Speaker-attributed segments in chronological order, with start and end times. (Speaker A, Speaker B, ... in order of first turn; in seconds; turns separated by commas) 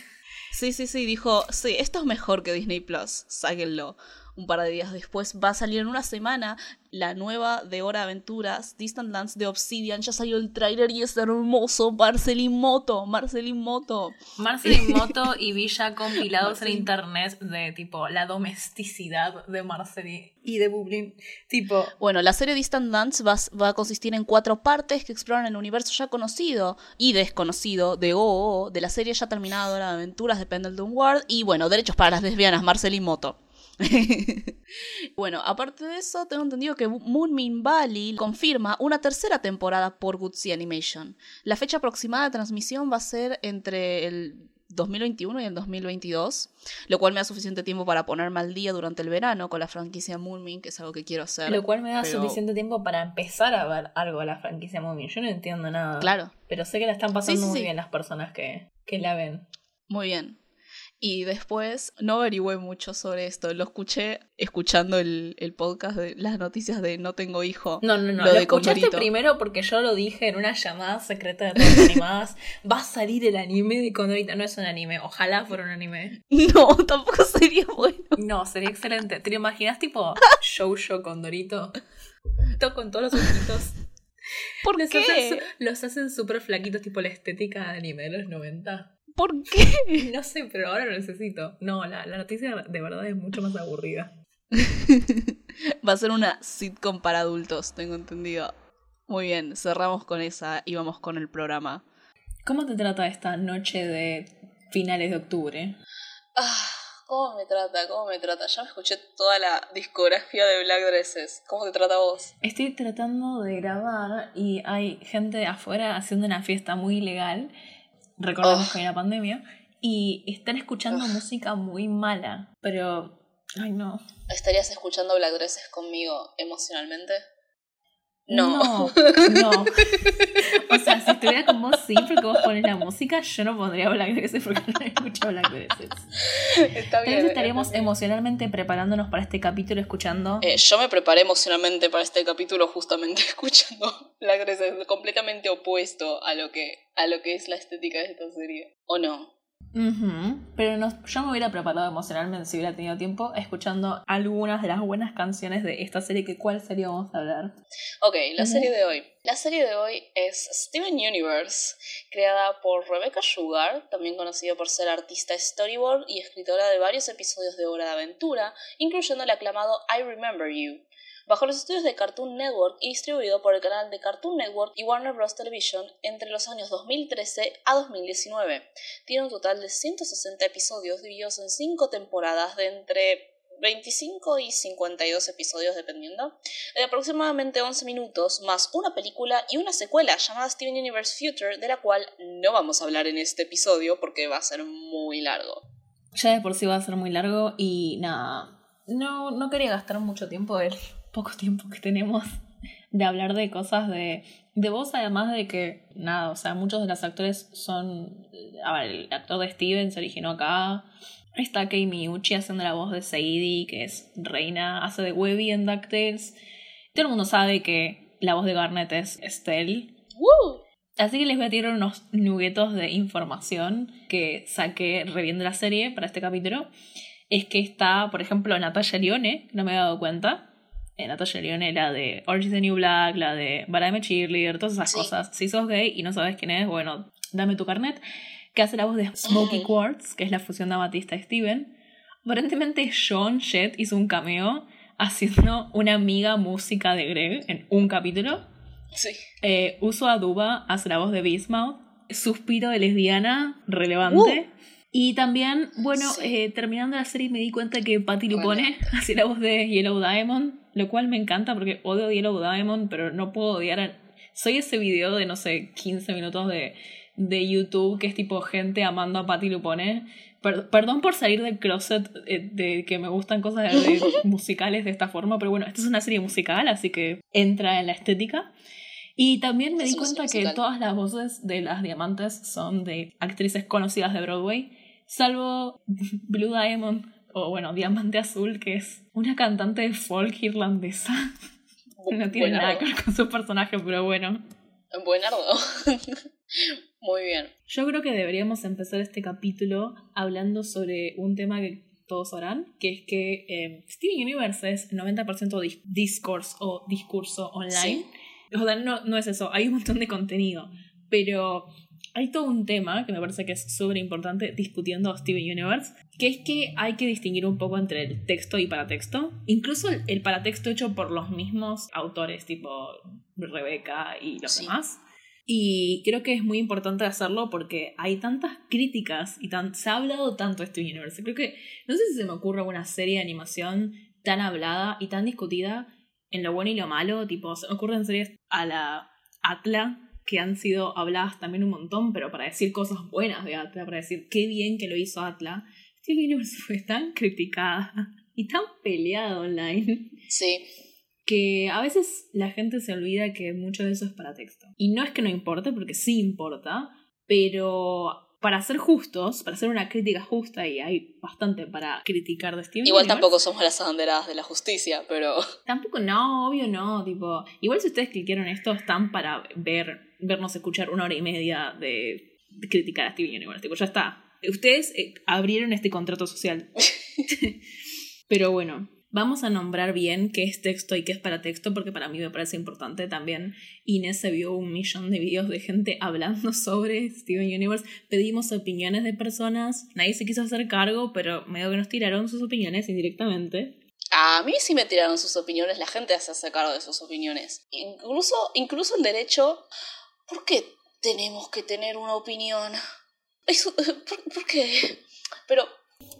Speaker A: 0.5-15.1, Speaker B: 14.4-21.9, Speaker A: 16.2-16.9, Speaker A: 22.0-34.5, Speaker A: 35.2-52.4, Speaker B: 51.5-59.5, Speaker A: 56.0-56.3, Speaker A: 57.2-57.7, Speaker A: 59.9-60.4, Speaker A: 61.0-69.1, Speaker B: 67.8-76.2, Speaker A: 76.3-78.2, Speaker B: 78.2-81.8, Speaker B: 82.6-83.8, Speaker A: 84.6-85.5, Speaker B: 84.7-88.9, Speaker A: 89.2-90.1, Speaker B: 89.9-94.1, Speaker A: 94.5-95.3, Speaker A: 95.8-98.5, Speaker A: 99.1-101.8, Speaker B: 102.5-105.8, Speaker A: 106.4-112.3, Speaker B: 112.4-117.5, Speaker B: 118.2-124.0, Speaker A: 118.4-118.8, Speaker A: 120.9-121.2, Speaker A: 124.3-127.2, Speaker B: 128.3-129.8, Speaker A: 128.3-131.3, Speaker B: 130.4-136.1, Speaker A: 136.3-137.9, Speaker B: 136.7-140.4, Speaker A: 140.4-149.3, Speaker B: 149.8-157.5, Speaker A: 158.0-195.6, Speaker B: 158.4-158.7, Speaker B: 196.1-202.3, Speaker B: 202.9-216.4, Speaker B: 216.9-219.9, Speaker A: 220.2-220.6, Speaker B: 221.0-226.7, Speaker B: 227.3-230.5, Speaker B: 231.0-238.0, Speaker A: 234.9-235.1, Speaker B: 238.5-241.7, Speaker A: 239.2-239.7, Speaker B: 242.2-248.4, Speaker A: 249.0-249.2, Speaker B: 249.4-278.5, Speaker A: 254.1-254.4, Speaker A: 255.9-256.4, Speaker A: 258.3-258.9, Speaker B: 279.2-291.3, Speaker A: 279.8-280.6, Speaker A: 292.0-292.9, Speaker B: 292.1-294.4, Speaker A: 294.9-297.5, Speaker B: 297.7-350.2, Speaker A: 307.7-308.1, Speaker A: 324.5-324.8, Speaker A: 350.3-350.7, Speaker B: 351.3-363.3, Speaker A: 362.9-365.4, Speaker B: 365.7-377.6, Speaker B: 378.3-393.8, Speaker A: 394.1-399.7, Speaker A: 400.3-402.8, Speaker A: 403.5-405.7